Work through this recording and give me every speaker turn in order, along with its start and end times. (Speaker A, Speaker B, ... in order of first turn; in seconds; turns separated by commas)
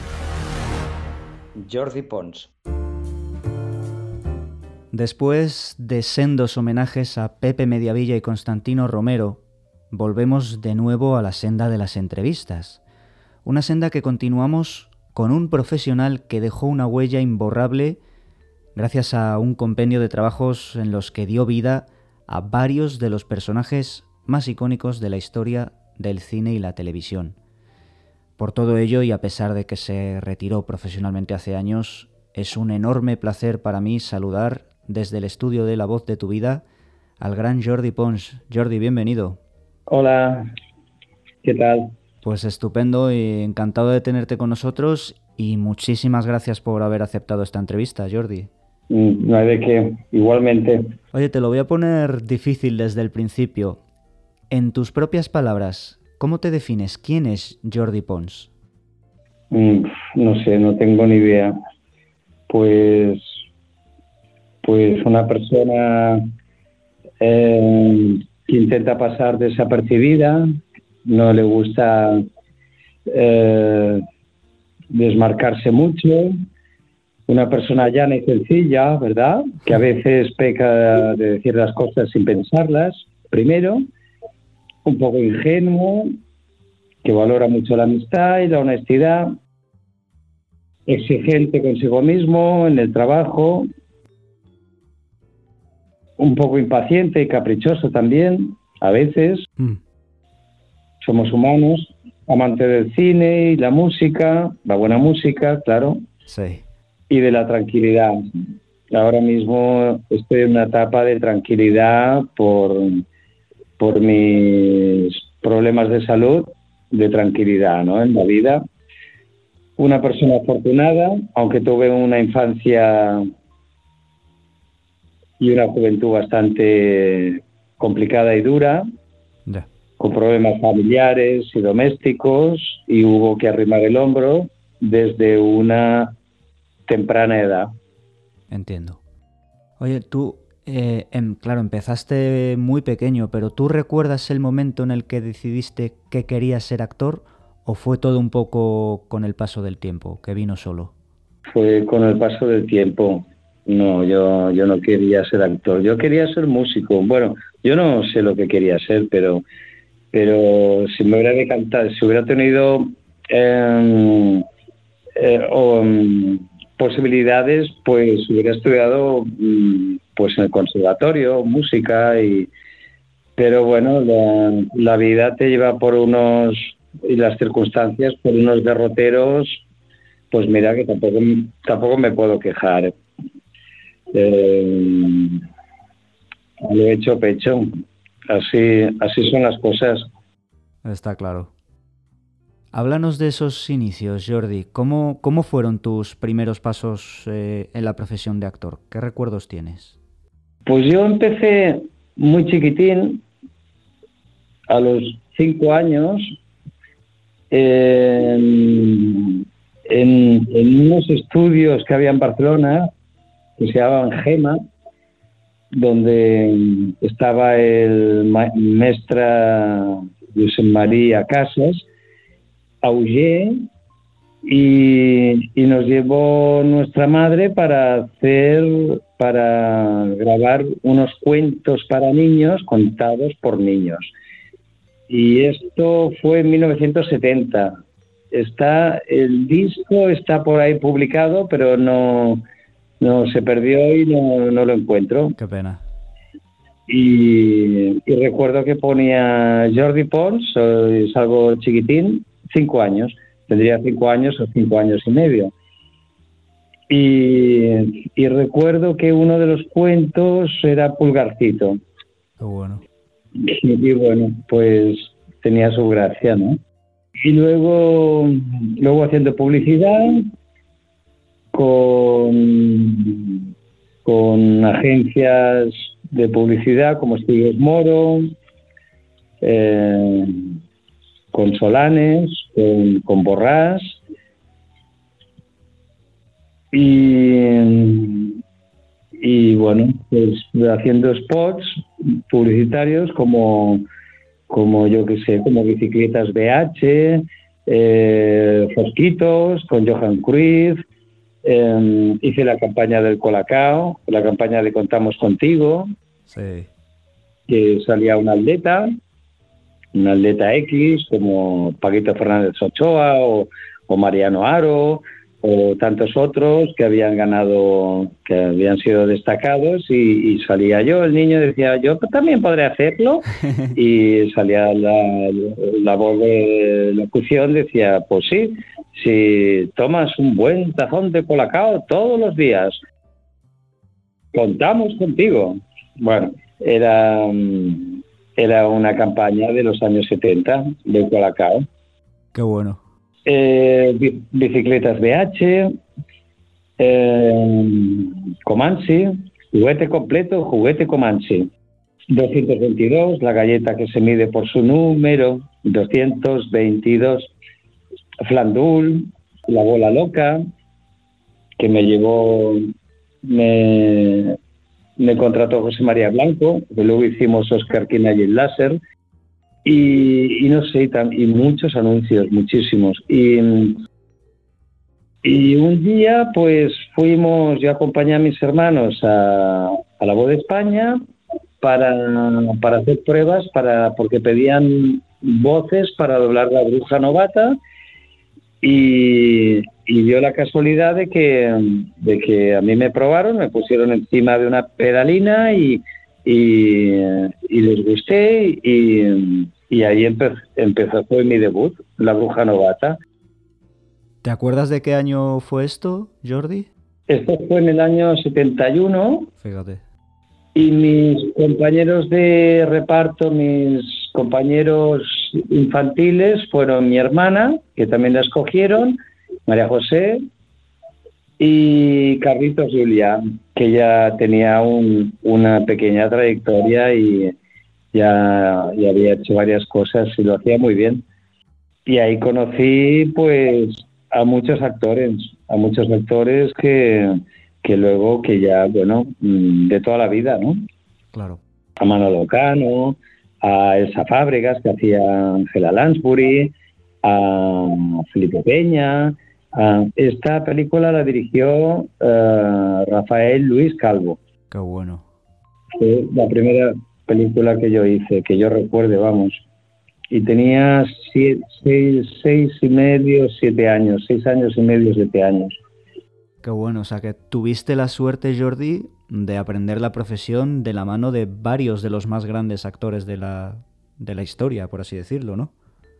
Speaker A: 1.6-2.5, Speaker B: 4.9-12.8, Speaker B: 13.4-18.0, Speaker B: 18.7-27.4, Speaker B: 28.4-36.6, Speaker B: 37.2-39.4, Speaker A: 39.9-40.5, Speaker A: 41.4-41.9, Speaker B: 42.2-48.5, Speaker A: 48.9-50.8, Speaker B: 51.1-53.8, Speaker B: 54.5-58.5, Speaker A: 59.5-61.5, Speaker A: 62.5-63.2, Speaker A: 64.6-66.2, Speaker A: 67.2-70.4, Speaker A: 71.0-72.2, Speaker A: 73.1-74.0, Speaker A: 74.9-76.3, Speaker A: 77.3-83.8, Speaker A: 84.8-86.2, Speaker A: 87.0-89.3, Speaker A: 90.9-93.7, Speaker A: 96.2-99.5, Speaker A: 101.0-106.0, Speaker B: 106.3-106.6, Speaker A: 107.1-108.2, Speaker A: 108.9-113.0, Speaker A: 113.8-118.6, Speaker A: 119.8-123.3, Speaker A: 125.4-128.8, Speaker A: 130.0-136.1, Speaker A: 136.9-137.7, Speaker B: 138.5-139.0, Speaker B: 139.8-150.9, Speaker A: 151.5-159.4, Speaker A: 160.1-164.4, Speaker A: 165.2-172.5, Speaker A: 173.3-179.6, Speaker A: 180.3-182.9, Speaker A: 184.1-185.4, Speaker A: 186.6-190.0, Speaker B: 190.8-191.5, Speaker B: 192.7-199.9, Speaker A: 200.7-203.2, Speaker A: 204.7-206.3, Speaker A: 207.5-212.9, Speaker A: 213.6-214.6, Speaker A: 215.7-221.8, Speaker A: 222.8-223.6, Speaker A: 224.4-234.1, Speaker A: 235.1-237.7, Speaker A: 238.3-242.4, Speaker A: 243.0-245.4, Speaker B: 245.4-245.8, Speaker A: 246.9-255.5, Speaker A: 256.9-261.8, Speaker B: 262.4-262.8, Speaker A: 263.4-266.6, Speaker A: 267.2-270.3, Speaker A: 271.5-273.4, Speaker A: 274.0-278.3, Speaker A: 279.4-280.5, Speaker A: 281.3-284.0, Speaker A: 286.7-288.4, Speaker A: 289.2-293.8, Speaker A: 294.5-300.8, Speaker A: 301.4-305.9, Speaker B: 306.3-306.7, Speaker A: 307.5-308.9, Speaker A: 309.9-332.8, Speaker A: 334.3-341.6, Speaker B: 342.3-342.8, Speaker A: 343.2-345.7, Speaker A: 346.8-351.5, Speaker A: 352.1-357.3, Speaker A: 358.2-360.4, Speaker A: 361.6-362.6, Speaker A: 363.2-364.4, Speaker A: 365.0-368.8, Speaker A: 369.6-373.8, Speaker A: 375.2-381.0, Speaker A: 381.6-387.6, Speaker A: 388.6-403.0, Speaker B: 404.2-406.7, Speaker A: 407.1-409.3, Speaker B: 409.4-409.8, Speaker A: 410.5-420.2, Speaker A: 421.4-427.3, Speaker A: 427.9-431.0, Speaker A: 431.9-440.6, Speaker B: 441.1-441.4, Speaker A: 441.8-446.5, Speaker A: 447.0-454.2, Speaker B: 454.5-455.0, Speaker A: 455.8-459.4, Speaker A: 460.1-465.6, Speaker B: 466.4-475.5